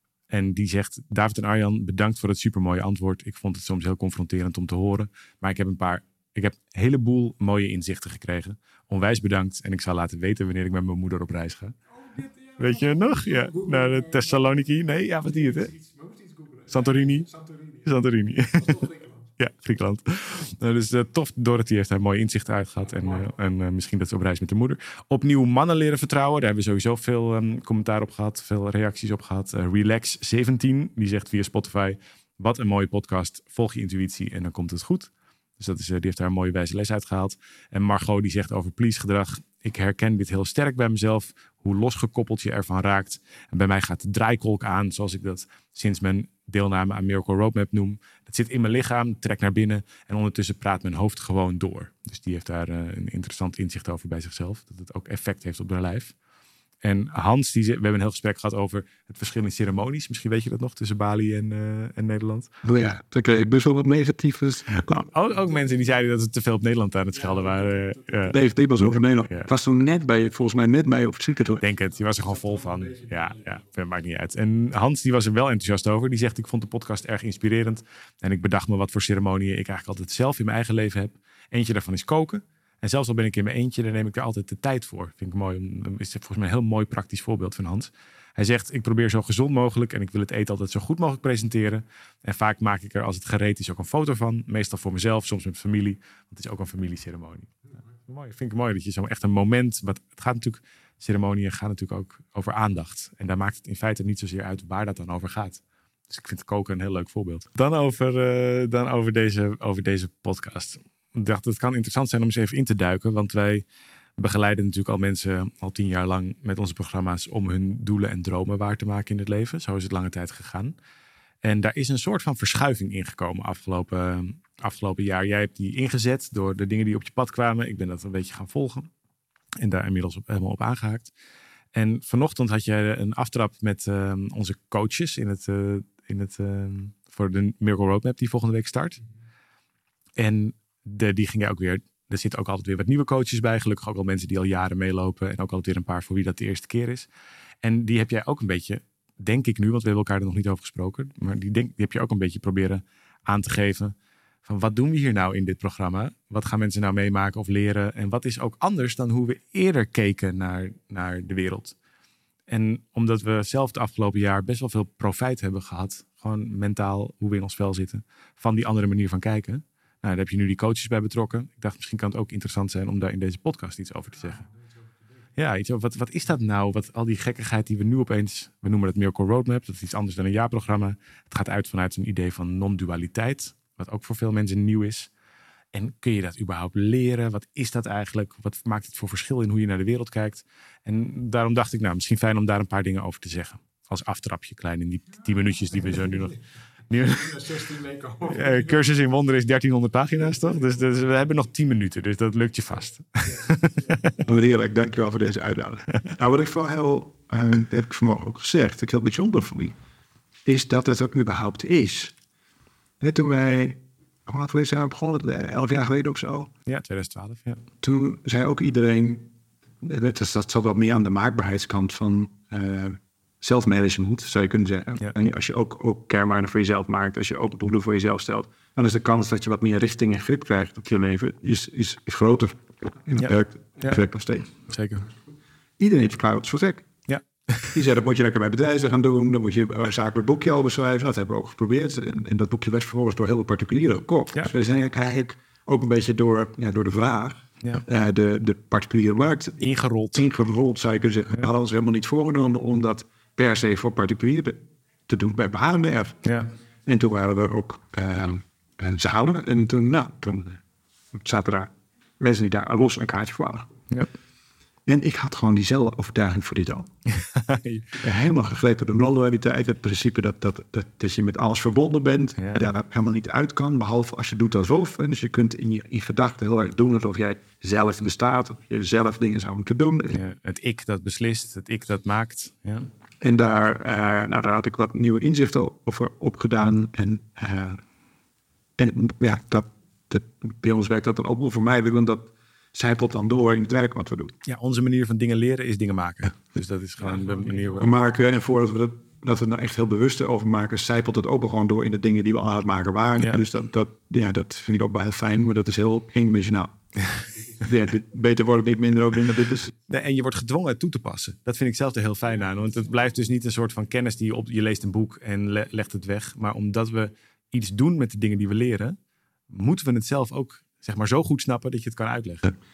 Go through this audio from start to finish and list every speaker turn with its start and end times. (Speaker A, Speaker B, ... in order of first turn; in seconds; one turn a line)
Speaker A: 0.3-11.8
Speaker A: 12.5-15.8
Speaker A: 16.7-56.1
Speaker A: 56.8-62.5
Speaker B: 62.6-65.1
Speaker A: 64.9-68.4
Speaker B: 68.3-71.6
Speaker A: 71.6-97.5
Speaker A: 98.0-113.7
Speaker A: 114.2-120.7
Speaker A: 121.4-128.9
Speaker A: 129.6-131.1
Speaker A: 131.7-139.0
Speaker A: 140.2-147.1
Speaker A: 147.6-161.8
Speaker A: 162.5-174.5
Speaker A: 175.4-185.1
Speaker A: 185.7-204.2
Speaker B: 204.2-209.8
Speaker B: 210.4-212.1
Speaker B: 213.0-216.5
Speaker A: 216.7-217.6
Speaker B: 217.8-219.3
Speaker B: 219.8-234.5
Speaker A: 234.6-235.1
Speaker B: 235.8-236.9
Speaker A: 237.1-237.7
Speaker B: 237.7-256.2
Speaker A: 249.6-250.2
Speaker A: 256.2-256.5
Speaker B: 256.9-260.6
Speaker B: 261.1-263.7
Speaker B: 264.9-266.9
Speaker A: 267.3-268.0
Speaker B: 268.0-280.2
Speaker A: 280.1-282.9
Speaker B: 283.2-287.8
Speaker B: 288.8-294.3
Speaker A: 294.4-297.9
Speaker B: 297.8-306.7
Speaker B: 307.6-309.7
Speaker A: 309.9-319.0
Speaker A: 319.5-322.6